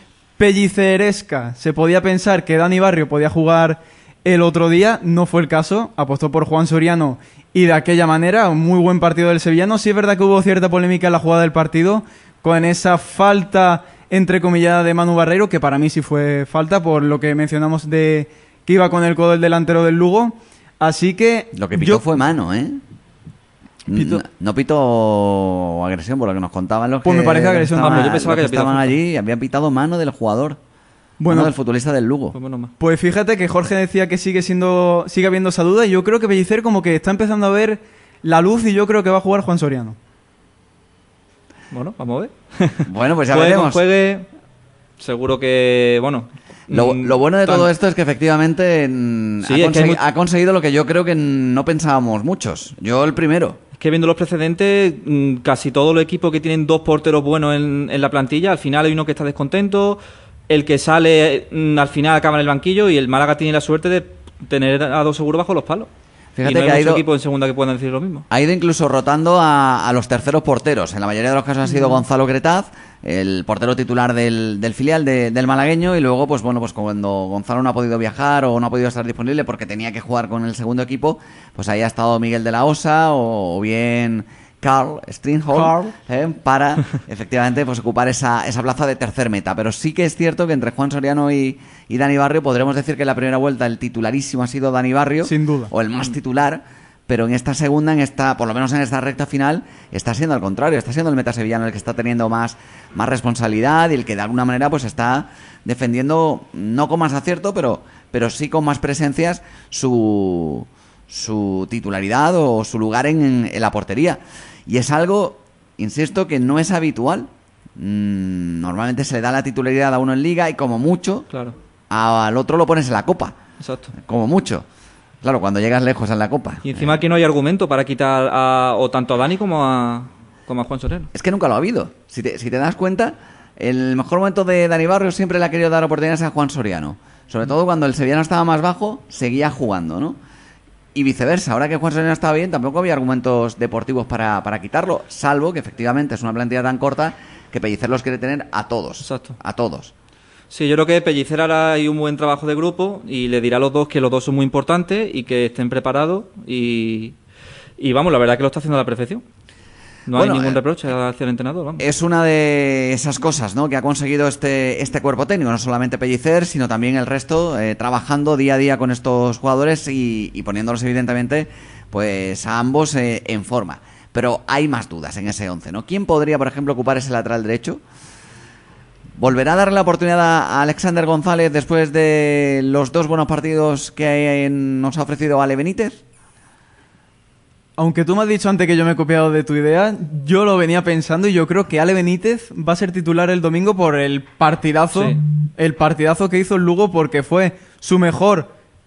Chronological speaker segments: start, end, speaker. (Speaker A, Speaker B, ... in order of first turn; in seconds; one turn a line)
Speaker A: 0.4-22.1
Speaker B: 21.5-22.8
Speaker B: 23.9-30.6
Speaker A: 23.9-24.2
Speaker A: 27.0-28.2
Speaker C: 27.8-29.0
Speaker A: 31.2-31.5
Speaker B: 31.3-32.3
Speaker C: 32.3-32.7
Speaker A: 32.8-40.0
Speaker C: 41.7-44.3
Speaker B: 42.9-43.8
Speaker C: 45.0-47.7
Speaker B: 46.7-53.6
Speaker C: 49.4-50.0
Speaker C: 53.8-65.9
Speaker B: 66.3-67.0
Speaker C: 66.4-68.2
Speaker B: 68.3-121.2
Speaker A: 85.5-85.9
Speaker A: 95.2-95.7
Speaker C: 121.3-121.5
Speaker B: 121.9-123.3
Speaker C: 123.6-123.9
Speaker B: 124.0-124.6
Speaker B: 125.2-127.0
Speaker C: 126.6-131.1
Speaker B: 131.1-140.2
Speaker B: 140.9-149.9
Speaker C: 149.0-149.3
Speaker C: 150.5-157.2
Speaker C: 157.8-159.2
Speaker C: 160.1-161.8
Speaker B: 160.1-160.6
Speaker B: 161.8-177.8
Speaker B: 179.2-186.0
Speaker A: 187.8-198.5